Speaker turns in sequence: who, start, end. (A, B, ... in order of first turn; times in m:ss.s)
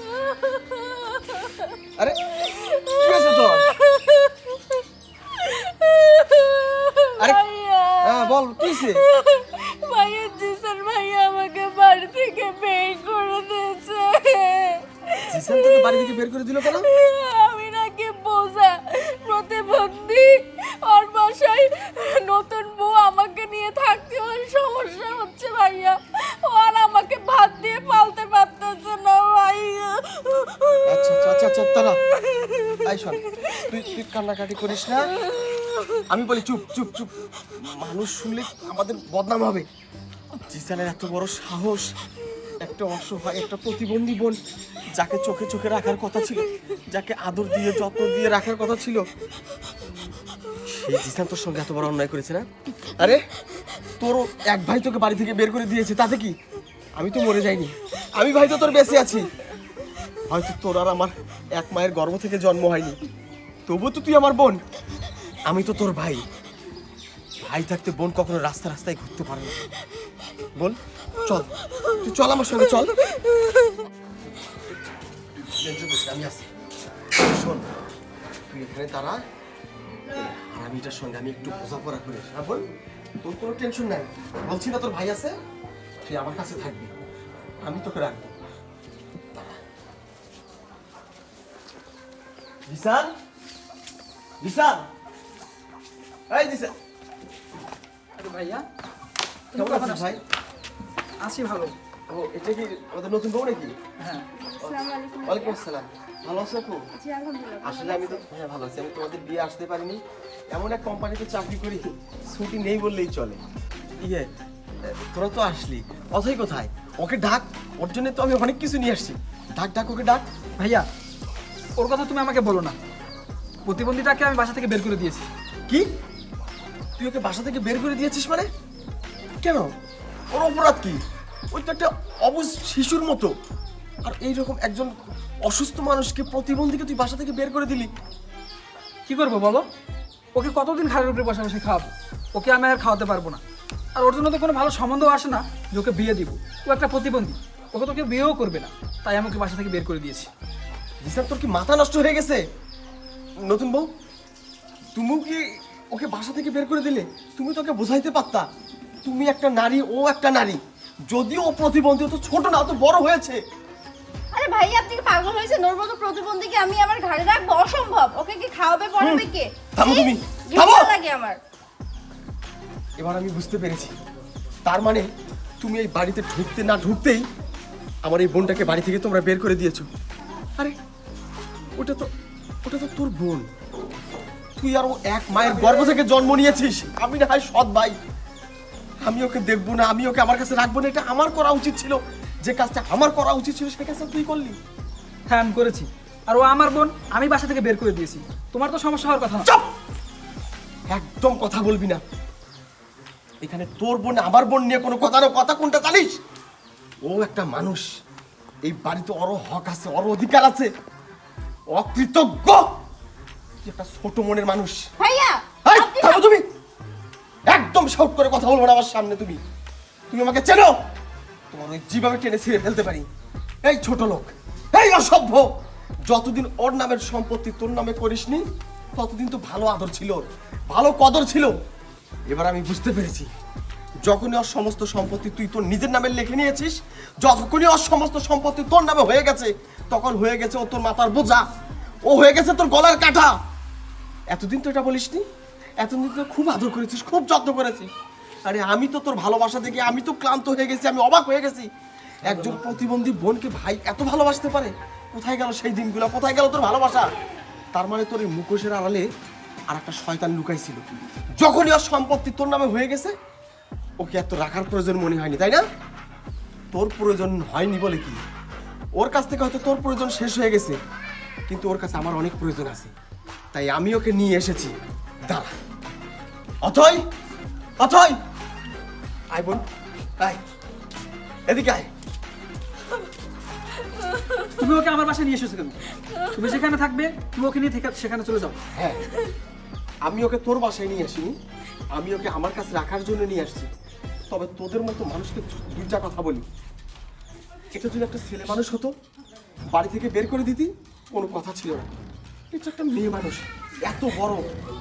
0:00.2-0:01.8 A
0:02.4-0:04.8 A
0:03.0-0:03.7 B
0:05.4-0:16.1 A
0:08.0-0:09.0 B
0:15.3-0:16.9 B
0:16.7-0:31.0 A
0:30.8-0:32.0 B
0:32.8-0:35.1 B
0:36.1-0:39.7 B
0:40.5-0:41.9 B
0:42.6-0:44.4 B
0:44.9-0:49.0 B
0:50.7-0:53.2 B
0:54.0-0:56.3 B
0:57.0-0:59.3 B
1:00.3-1:03.0 B
1:03.7-1:04.6 B
1:05.4-1:06.2 B
1:07.4-1:09.6 B
1:10.6-1:13.0 B
1:15.4-1:16.5 B
1:17.2-1:17.7 B
1:18.5-1:19.2 B
1:20.1-1:22.6 B
1:23.2-1:25.3 B
1:26.0-1:26.9 B
1:27.6-1:28.3 B
1:32.7-1:33.1 B
1:34.4-1:34.9 B
1:36.3-1:36.7 B
1:38.2-1:38.6 C
1:39.5-1:40.2 C
1:39.5-1:40.2 B
1:41.2-1:41.7 C
1:42.1-1:43.7 B
1:44.0-1:44.2 C
1:44.6-1:46.8 B
1:44.8-1:45.3 A
1:47.0-1:47.6 A
1:47.6-1:50.0 B
1:50.5-1:53.4 B
1:54.0-1:54.3 B
1:54.8-2:00.2 B
2:00.6-2:00.9 C
2:01.8-2:02.8 C
2:03.6-2:05.3 C
2:07.0-2:08.5 B
2:09.4-2:09.7 B
2:10.3-2:11.0 B
2:11.5-2:13.3 B
2:14.0-2:14.9 B
2:15.4-2:17.9 B
2:19.1-2:19.6 C
2:20.3-2:23.4 C
2:24.0-2:30.3 C
2:31.0-2:32.4 B
2:33.4-2:33.9 B
2:34.9-2:38.5 B
2:39.0-2:43.4 B
2:44.3-2:51.4 D
2:49.0-2:50.9 B
2:53.0-2:53.9 B
2:54.6-2:55.1 B
2:55.6-2:57.2 B
2:58.0-2:59.9 B
3:01.8-3:02.1 B
3:02.6-3:03.4 B
3:04.6-3:08.0 B
3:09.0-3:14.6 B
3:15.3-3:19.5 C
3:20.9-3:22.0 B
3:23.4-3:26.2 B
3:27.0-3:28.0 B
3:28.6-3:30.7 B
3:31.7-3:32.7 B
3:33.6-3:34.9 B
3:35.0-3:36.2 D
3:35.6-3:36.5 B
3:37.5-3:39.4 B
3:40.1-3:40.8 B
3:41.5-3:43.0 B
3:43.6-3:45.5 B
3:46.0-3:48.4 B
3:48.9-3:51.5 B
3:52.3-3:53.3 B
3:54.0-4:01.4 B
4:02.0-4:03.3 B
4:04.3-4:05.2 B
4:05.8-4:07.9 B
4:08.4-4:11.7 B
4:12.2-4:17.1 B
4:17.7-4:19.0 B
4:19.7-4:20.8 B
4:21.4-4:23.1 B
4:24.0-4:25.6 B
4:26.7-4:28.2 B
4:29.0-4:30.8 B
4:31.5-4:32.9 B
4:33.5-4:34.7 B
4:36.6-4:37.0 B
4:37.8-4:38.1 B
4:39.3-4:39.6 B
4:41.5-4:41.9 B
4:44.6-4:45.8 C
4:46.3-4:48.6 C
4:48.7-4:49.0 B
4:50.0-4:51.4 B
4:51.9-4:53.7 B
4:54.3-4:56.4 B
4:57.7-4:58.9 B
4:59.7-5:01.9 B
5:02.5-5:04.4 B